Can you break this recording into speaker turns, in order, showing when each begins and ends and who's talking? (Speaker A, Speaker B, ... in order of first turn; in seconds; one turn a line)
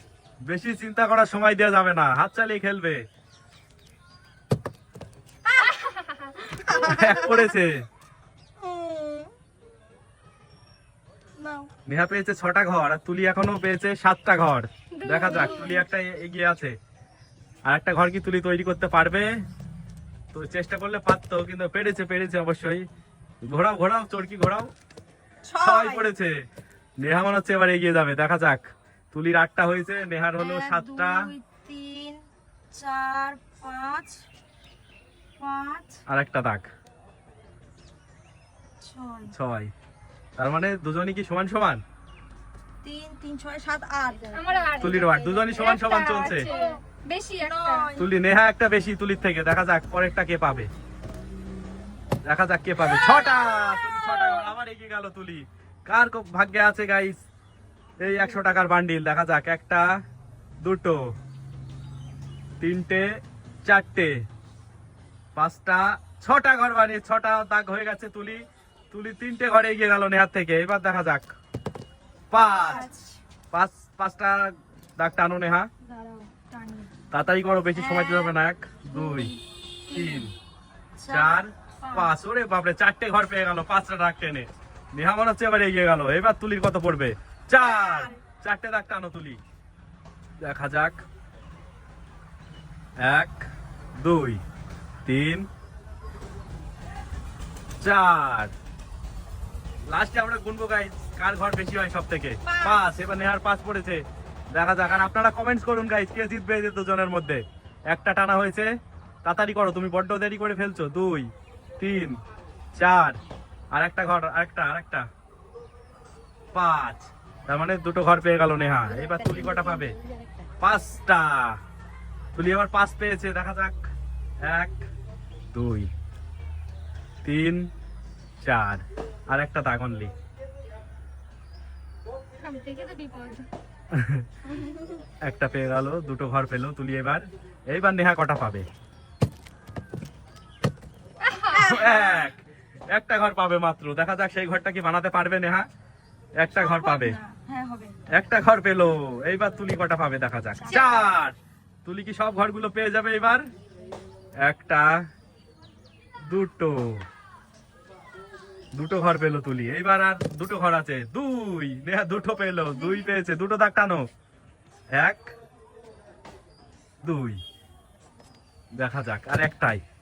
Speaker A: 0.4-3.0
Speaker B: 5.6-6.6
Speaker C: 6.6-7.5
Speaker A: 6.7-7.8
Speaker C: 8.6-9.3
Speaker C: 11.4-11.7
Speaker A: 11.9-16.8
Speaker B: 14.9-15.8
Speaker C: 15.3-15.8
Speaker A: 17.6-19.3
Speaker A: 20.3-22.9
Speaker A: 23.4-24.7
Speaker C: 25.4-26.1
Speaker A: 25.6-26.4
Speaker A: 27.0-31.3
Speaker C: 30.4-34.2
Speaker C: 35.4-36.0
Speaker A: 36.1-36.7
Speaker C: 38.8-39.3
Speaker A: 39.3-39.7
Speaker A: 40.4-41.8
Speaker C: 42.8-44.7
Speaker B: 44.3-47.9
Speaker A: 44.8-46.5
Speaker C: 45.6-46.8
Speaker C: 47.4-48.0
Speaker A: 48.0-50.7
Speaker A: 52.2-57.2
Speaker A: 58.0-60.0
Speaker A: 60.6-61.1
Speaker A: 62.6-64.1
Speaker A: 65.3-71.3
Speaker A: 72.3-72.9
Speaker C: 72.3-73.2
Speaker A: 73.5-75.7
Speaker C: 75.9-76.9
Speaker A: 77.1-79.3
Speaker C: 77.7-78.3
Speaker C: 78.9-79.4
Speaker A: 79.9-80.3
Speaker C: 79.9-80.3
Speaker C: 81.0-82.1
Speaker A: 81.1-89.4
Speaker C: 87.6-88.2
Speaker A: 90.4-91.0
Speaker A: 93.0-94.4
Speaker A: 95.0-95.5
Speaker A: 97.8-98.5
Speaker A: 99.9-108.7
Speaker C: 102.4-102.8
Speaker A: 109.2-112.2
Speaker A: 112.7-113.2
Speaker A: 113.7-115.1
Speaker A: 116.5-120.0
Speaker B: 118.8-120.5
Speaker A: 120.6-121.6
Speaker A: 122.3-123.9
Speaker A: 124.4-124.9
Speaker A: 125.5-125.9
Speaker A: 127.2-127.7
Speaker A: 128.4-130.1
Speaker B: 132.4-133.5
Speaker A: 133.9-134.2
Speaker A: 135.2-138.7
Speaker B: 141.2-142.0
Speaker C: 141.5-142.3
Speaker A: 141.5-145.6
Speaker A: 146.3-147.2
Speaker C: 146.5-148.1
Speaker A: 148.1-153.4
Speaker C: 150.6-151.2
Speaker A: 154.4-155.0
Speaker A: 156.3-157.0
Speaker A: 158.7-164.1
Speaker C: 162.8-163.1
Speaker A: 164.9-165.3
Speaker A: 167.0-167.4
Speaker A: 168.8-169.8